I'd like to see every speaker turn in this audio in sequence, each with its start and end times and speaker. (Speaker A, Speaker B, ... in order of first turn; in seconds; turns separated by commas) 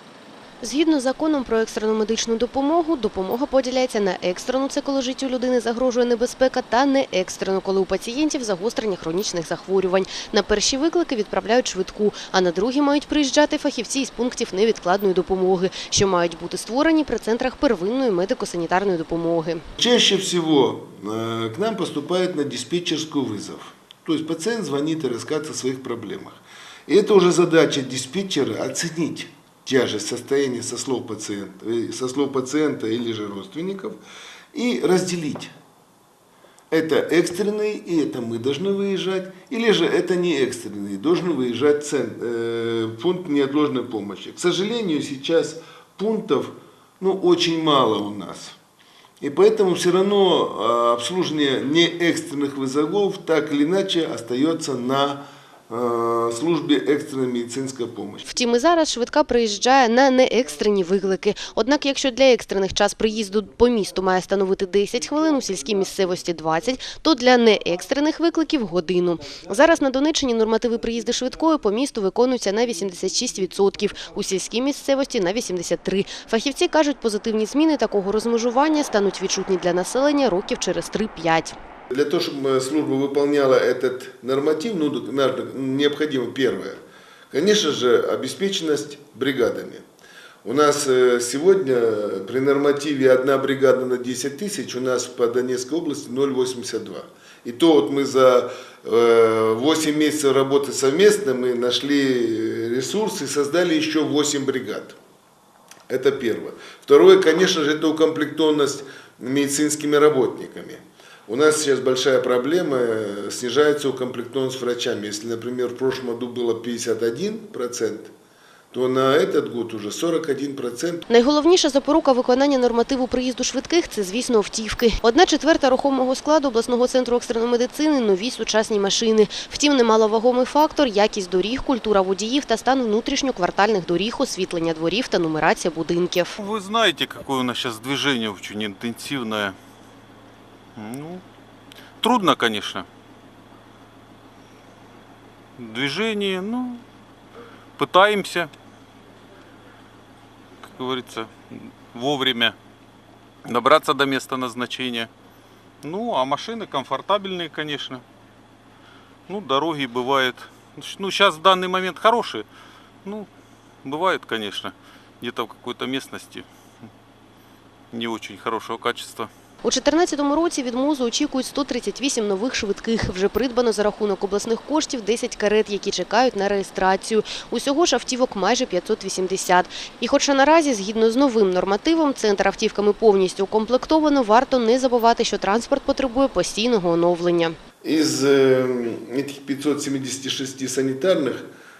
Speaker A: 0.6-19.6, Speaker B: 19.8-34.0, Speaker B: 34.5-35.5, Speaker B: 36.7-48.5, Speaker B: 49.2-58.2, Speaker A: 58.3-81.5, Speaker B: 81.9-89.8, Speaker B: 90.4-105.0, Speaker B: 105.9-118.1, Speaker B: 118.7-121.0, Speaker A: 121.1-136.3, Speaker C: 136.4-139.5, Speaker C: 140.8-141.2, Speaker C: 142.0-142.8, Speaker C: 145.6-146.8, Speaker C: 147.8-148.5, Speaker C: 150.8-151.3, Speaker C: 151.9-152.5, Speaker C: 153.5-155.1, Speaker C: 155.8-158.0, Speaker C: 159.3-162.4, Speaker C: 163.8-166.4, Speaker C: 167.9-169.3, Speaker A: 169.6-187.6, Speaker B: 187.8-191.5